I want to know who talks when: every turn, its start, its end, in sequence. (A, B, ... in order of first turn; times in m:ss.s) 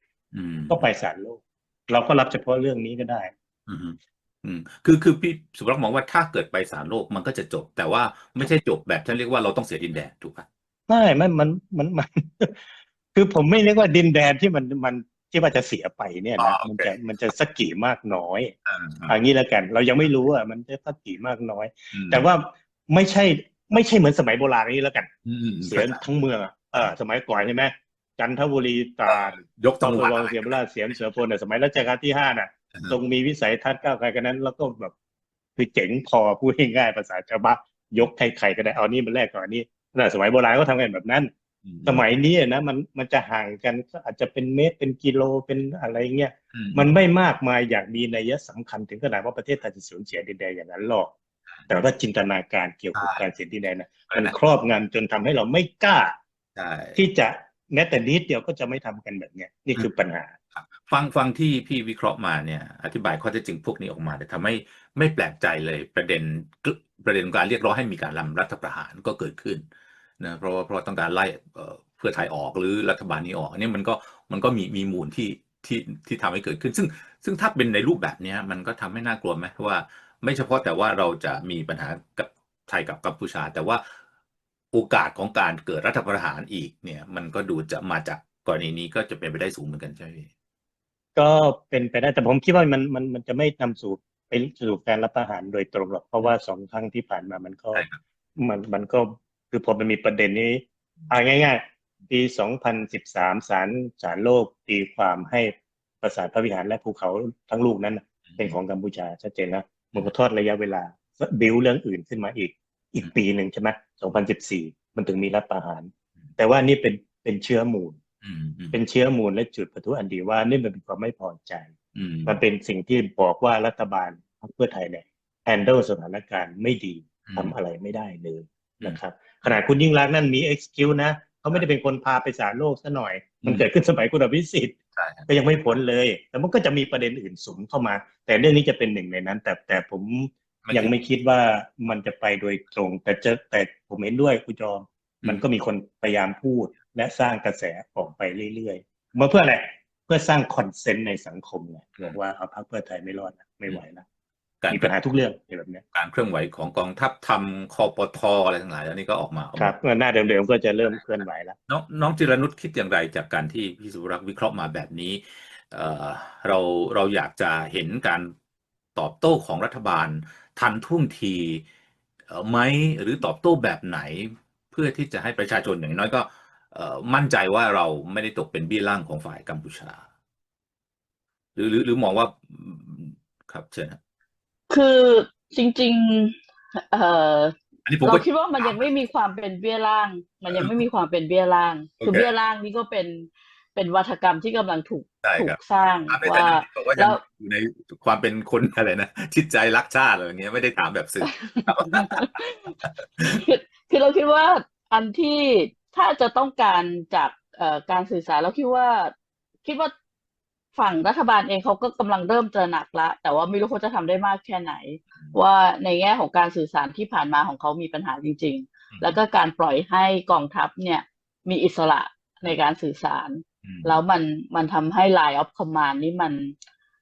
0:00.3-0:00.9 A
0:00.7-0:03.3 B
0:03.7-0:10.5 A
0:10.9-0:18.5 B
0:16.4-0:16.9 A
0:18.6-0:19.1 A
0:19.0-0:25.1 B
0:21.9-0:22.2 A
0:25.2-0:26.0 A
0:25.6-0:34.9 B
0:29.0-0:30.5 A
0:35.6-0:41.3 B
0:41.6-0:42.0 A
0:41.8-0:51.1 B
0:46.5-0:46.8 A
0:51.7-0:56.2 B
0:52.9-0:53.3 A
0:54.1-0:54.4 A
0:56.6-0:57.0 A
0:56.9-1:00.3 B
1:00.5-1:09.6 A
1:10.2-1:23.8 A
1:24.7-1:30.3 A
1:31.2-1:58.0 B
1:37.7-1:38.0 A
1:48.3-1:48.6 A
1:58.2-1:58.8 A
1:58.7-2:01.7 B
2:01.9-2:02.4 A
2:02.2-2:14.8 B
2:07.2-2:07.5 A
2:08.8-2:09.6 A
2:15.0-2:15.3 A
2:15.3-2:34.0 B
2:20.6-2:20.9 A
2:34.6-2:34.9 A
2:34.7-2:35.8 B
2:35.9-2:39.7 A
2:39.6-2:41.6 B
2:41.7-2:48.3 A
2:48.9-2:51.6 A
2:52.3-3:00.0 A
3:01.5-3:04.0 A
3:04.7-3:17.2 C
3:07.8-3:08.8 A
3:10.5-3:10.8 A
3:12.0-3:12.3 A
3:15.2-3:23.4 A
3:21.3-3:22.7 C
3:23.2-3:29.1 C
3:29.6-3:29.9 C
3:30.7-3:46.5 C
3:38.9-3:39.2 A
3:43.6-3:44.0 A